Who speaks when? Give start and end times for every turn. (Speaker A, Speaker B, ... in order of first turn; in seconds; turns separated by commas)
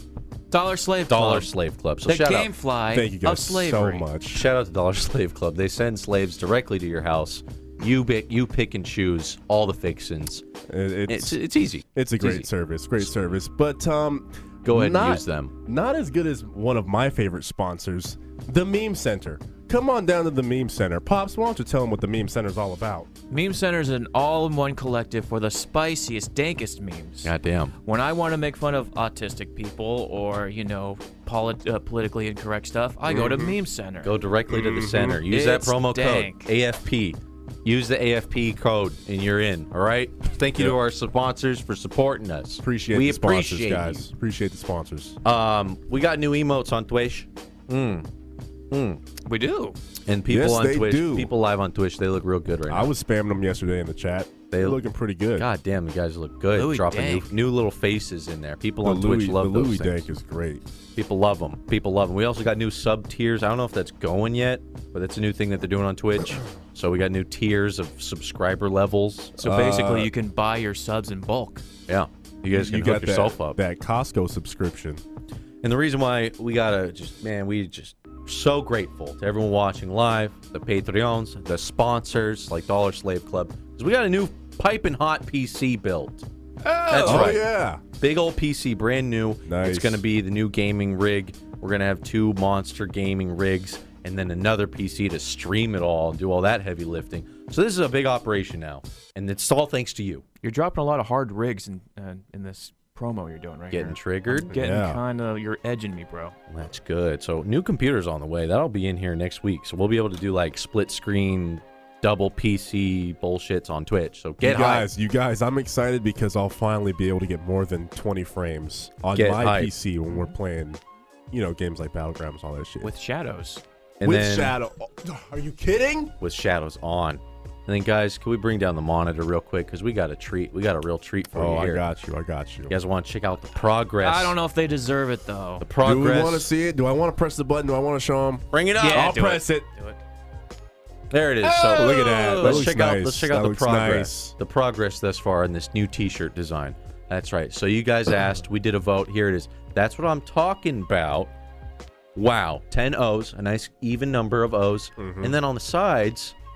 Speaker A: 0.5-1.5, Speaker B: 1.1-2.5, Speaker A: 2.0-4.1, Speaker C: 2.9-4.5, Speaker B: 4.3-10.4, Speaker C: 10.7-11.4, Speaker B: 11.1-12.5, Speaker C: 11.9-23.1, Speaker B: 13.0-13.3, Speaker B: 14.6-15.5, Speaker A: 23.3-34.1, Speaker B: 27.2-27.7, Speaker C: 33.1-33.6, Speaker B: 34.0-44.1, Speaker C: 34.5-35.2, Speaker A: 35.3-36.5, Speaker C: 42.6-45.2, Speaker B: 45.2-48.1, Speaker B: 48.7-49.0, Speaker A: 49.2-49.8, Speaker B: 50.1-52.9, Speaker C: 50.3-51.3, Speaker C: 52.7-55.5, Speaker B: 54.5-54.8, Speaker B: 55.4-60.1, Speaker A: 56.5-57.3, Speaker C: 58.8-60.6, Speaker B: 61.0-70.0, Speaker C: 69.4-70.1, Speaker A: 69.4-71.6, Speaker B: 71.9-73.6, Speaker C: 72.5-75.0, Speaker B: 75.6-86.2, Speaker C: 86.7-87.8, Speaker B: 86.9-87.4, Speaker A: 86.9-87.3, Speaker B: 88.0-100.2, Speaker C: 89.5-90.0, Speaker A: 100.4-106.3, Speaker B: 103.7-104.5, Speaker C: 104.5-105.0, Speaker B: 106.5-114.9, Speaker C: 114.4-122.9, Speaker B: 119.1-119.7, Speaker A: 120.1-120.3, Speaker A: 122.8-123.6, Speaker B: 124.0-124.5, Speaker C: 124.0-126.1, Speaker B: 126.2-131.8, Speaker C: 131.3-132.7, Speaker B: 132.7-134.3, Speaker A: 134.0-135.7, Speaker B: 135.6-136.5, Speaker C: 135.8-139.7, Speaker B: 138.5-139.2, Speaker A: 138.8-140.0, Speaker B: 141.1-151.3, Speaker A: 141.4-142.7, Speaker C: 141.6-144.3, Speaker B: 152.1-156.3, Speaker C: 155.0-155.4